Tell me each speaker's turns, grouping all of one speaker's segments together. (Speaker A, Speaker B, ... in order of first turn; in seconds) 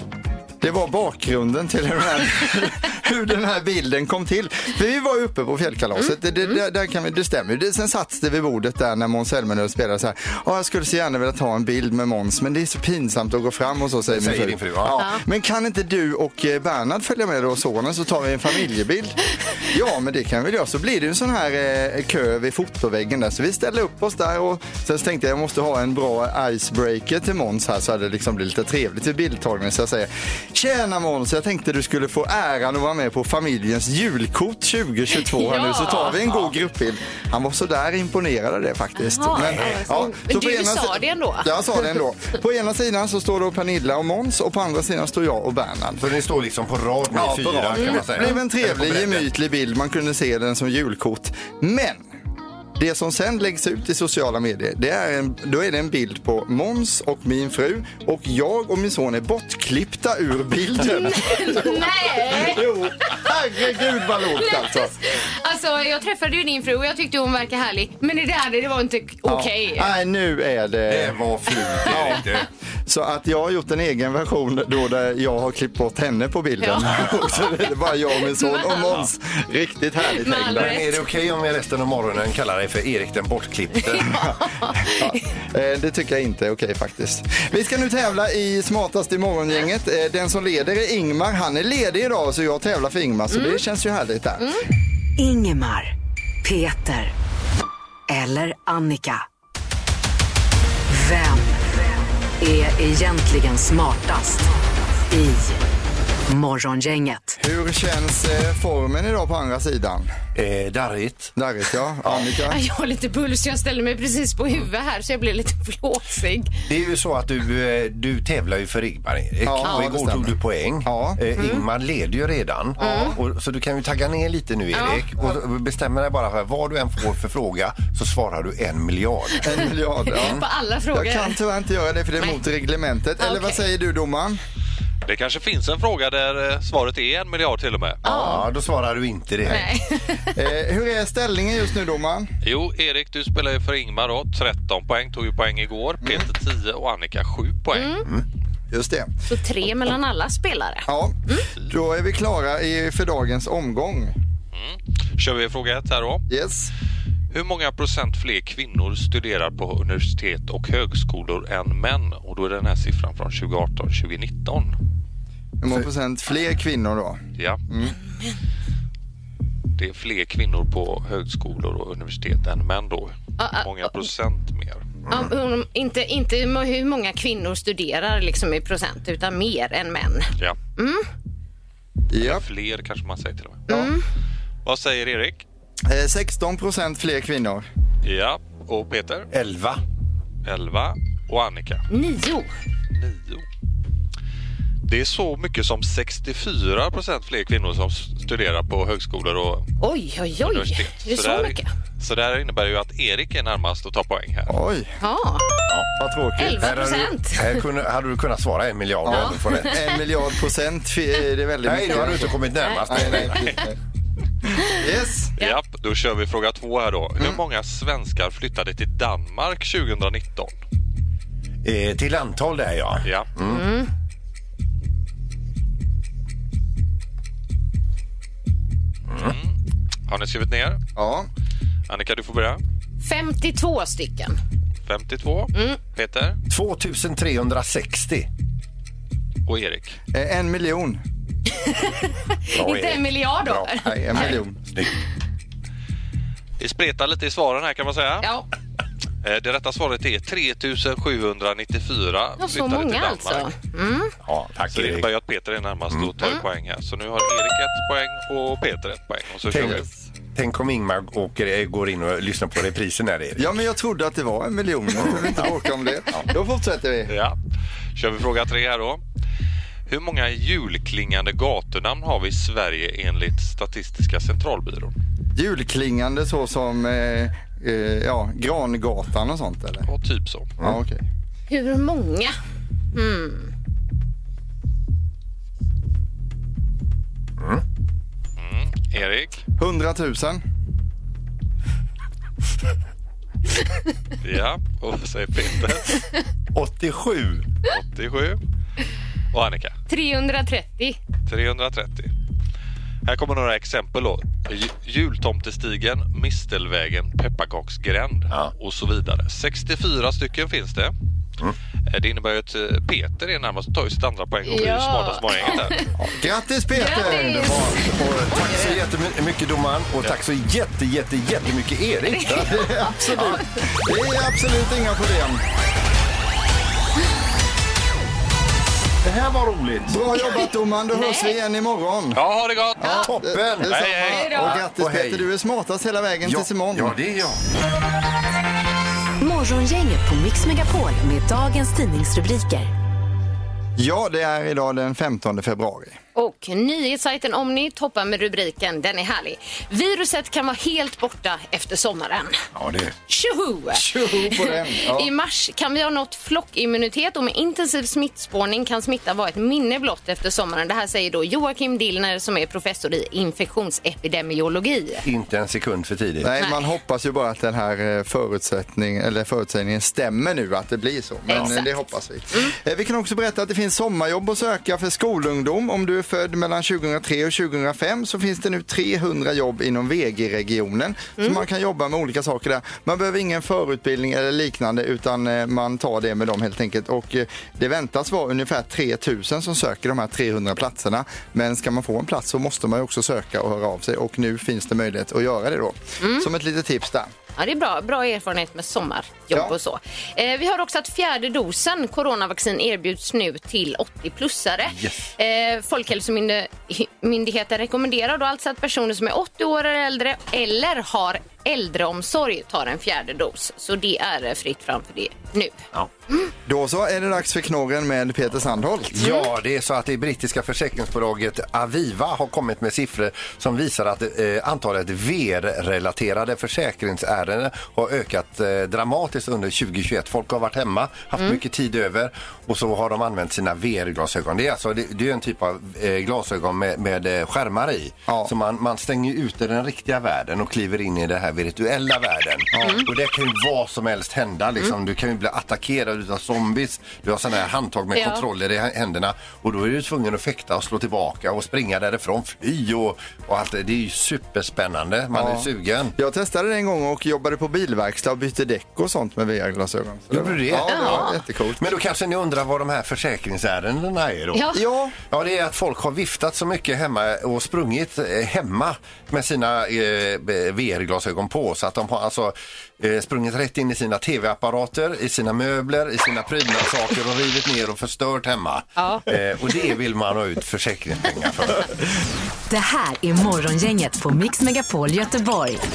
Speaker A: 0.6-46.1, 47.1-52.1, 52.8-64.9, 69.2-71.2, 71.8-72.3, 72.9-80.8, 84.8-94.5, 107.4-110.1, 111.4-112.6, 119.4-121.2, 122.8-123.1, 129.4-134.4, 138.1-138.3, 140.3-142.3, 146.0-146.3, 148.7-149.1, 150.9-154.2, 156.3-156.7, 165.6-167.9, 182.1-182.4, 185.9-187.7, 204.5-204.9, 206.0-206.7, 209.0-213.8, 214.7-215.3, 231.0-231.3, 240.1-241.0, 243.8-244.6, 263.4-267.1, 275.4-279.9, 280.6-281.0, 289.6-290.4, 316.0-318.8, 322.3-325.4, 329.9-332.2, 332.8-337.0, 343.8-346.0, 353.7-355.1, 366.2-397.1, 416.5-419.0, 442.5-442.9, 455.1-461.7, 464.5-465.0
Speaker B: 6.0-6.6, 15.0-15.2, 35.1-36.4, 39.0-41.9, 47.8-48.4, 60.9-63.3, 64.2-69.9, 76.6-77.3, 78.3-78.9, 80.1-81.0, 84.0-85.2, 93.3-93.6, 94.4-94.6, 112.5-116.5, 121.4-121.6, 122.8-123.2, 124.7-125.0, 130.1-131.4, 133.2-133.6, 138.0-138.4, 139.5-140.4, 147.7-148.1, 149.3-151.5, 168.1-168.3, 173.4-173.9, 175.1-181.1, 183.7-184.0, 191.9-192.5, 199.8-201.7, 205.0-205.5, 206.4-207.5, 209.1-209.8, 212.6-213.5, 223.5-223.9, 233.0-234.4, 241.5-244.4, 252.4-254.2, 281.5-282.4, 282.9-283.5, 299.9-301.0, 314.5-315.9, 316.7-318.7, 322.1-323.0, 330.1-331.4, 334.1-334.5, 346.2-352.4, 353.1-365.1, 366.4-366.6, 371.3-371.8, 381.2-381.4, 396.0-396.3, 397.4-416.3, 419.0-419.3, 447.9-448.2, 460.7-461.2, 464.3-464.6, 478.8-479.1
Speaker C: 14.1-15.0, 39.4-39.8, 46.0-49.3, 70.9-72.5, 80.4-84.4, 110.3-111.3, 116.7-129.5, 130.2-130.4, 138.1-139.7, 189.3-189.8, 206.6-209.8, 211.7-213.5, 221.6-223.6, 229.1-229.4, 236.5-238.3, 242.5-245.0, 254.2-255.1, 259.5-259.8, 260.3-263.6, 265.0-265.5, 287.4-287.6, 296.5-297.5, 318.4-322.5, 323.1-323.4, 329.0-330.0, 333.1-335.3, 336.2-337.4, 352.6-353.0, 365.1-366.3, 404.8-405.1, 418.9-455.9, 460.1-464.5, 465.1-481.8
Speaker D: 95.2-97.1, 98.1-99.2, 100.9-101.7, 102.4-104.5, 105.1-105.6, 106.3-107.4, 339.2-342.7, 482.5-485.6
Speaker E: 135.1-138.0, 142.4-148.0, 154.5-156.2, 157.3-164.8, 169.8-174.9, 182.2-183.7, 184.7-185.4, 188.0-189.3, 190.4-191.8, 192.9-193.4, 194.9-199.7, 200.4-204.5, 215.4-220.6, 229.2-229.5, 230.1-230.8, 231.9-232.6, 234.9-236.4, 239.5-240.0, 246.6-248.3, 249.2-253.5, 254.7-259.9, 267.1-267.4, 267.9-269.0, 269.9-274.9, 279.9-280.5, 288.4-289.4, 294.2-296.1, 297.6-298.4, 299.3-299.8, 301.3-302.1, 303.1-310.9, 311.9-315.8, 332.1-332.8, 333.7-334.4